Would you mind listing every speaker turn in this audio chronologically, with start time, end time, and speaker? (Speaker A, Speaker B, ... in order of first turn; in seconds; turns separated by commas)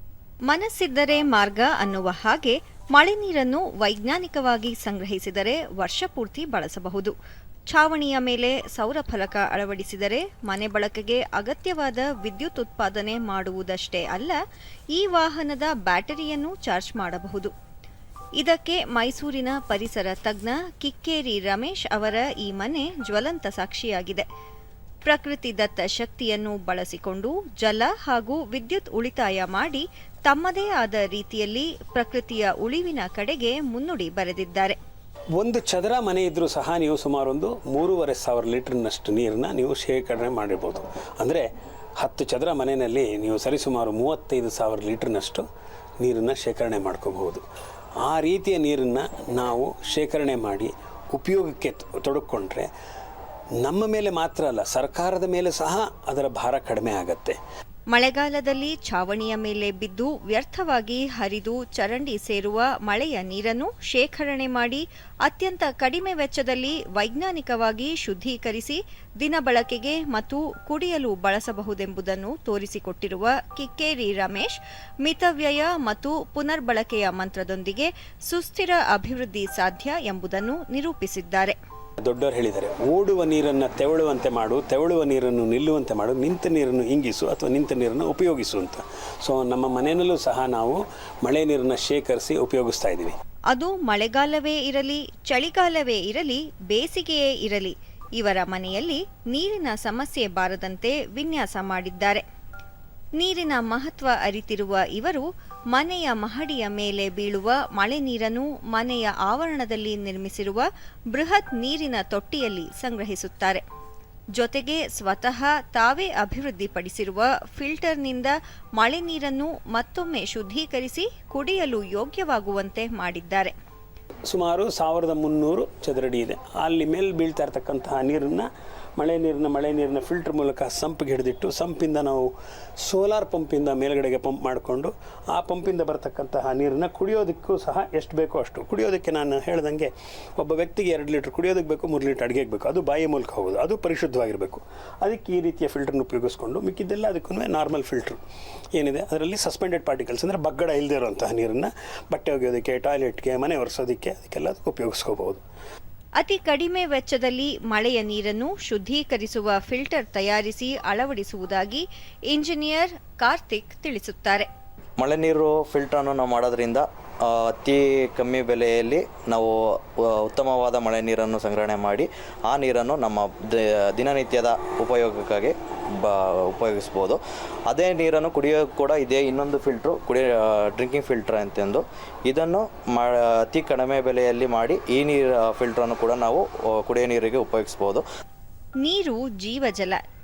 Speaker A: 0.5-7.1, Speaker A: 7.7-14.4, Speaker A: 14.9-17.5, Speaker A: 18.4-24.3, Speaker A: 25.1-34.8, Speaker B: 35.4-41.5, Speaker B: 42.0-45.5, Speaker B: 46.0-47.4, Speaker B: 48.0-52.7, Speaker B: 53.6-57.4, Speaker A: 57.9-81.6, Speaker B: 82.0-93.2, Speaker A: 93.5-102.2, Speaker A: 103.2-113.6, Speaker A: 114.4-123.5, Speaker B: 124.3-132.3, Speaker B: 132.8-148.2, Speaker B: 148.7-155.4, Speaker A: 156.2-164.5, Speaker C: 165.0-188.0, Speaker A: 188.8-190.0